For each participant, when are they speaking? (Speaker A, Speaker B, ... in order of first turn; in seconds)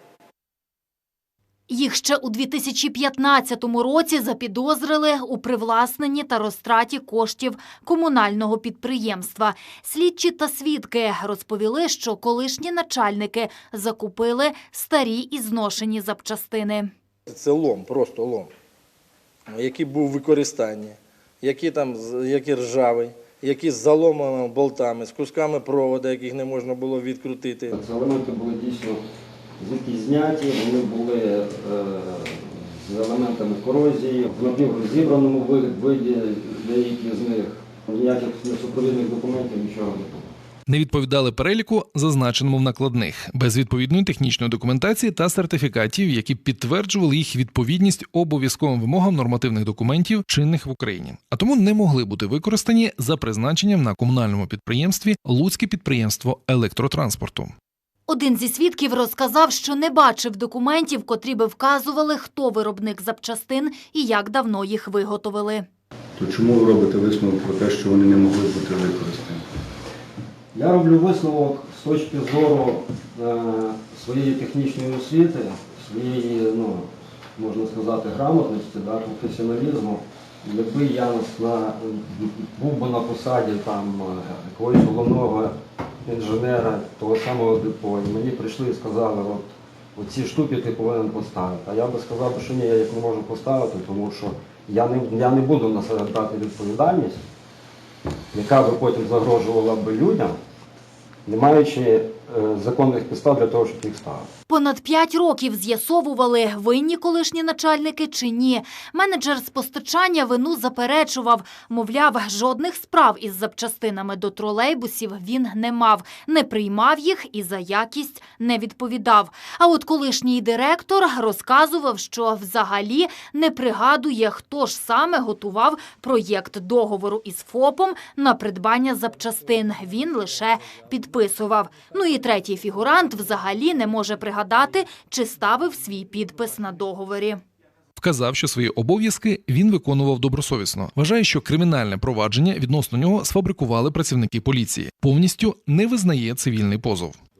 Speaker A: 1.7-16.9, 58.1-65.7, 104.5-137.4
Speaker B: 17.3-18.5, 19.5-27.7
Speaker C: 27.7-29.0, 29.6-40.3, 70.5-97.2, 98.3-100.4, 101.2-104.3
Speaker D: 40.7-57.5, 138.0-147.2
Speaker E: 66.2-69.4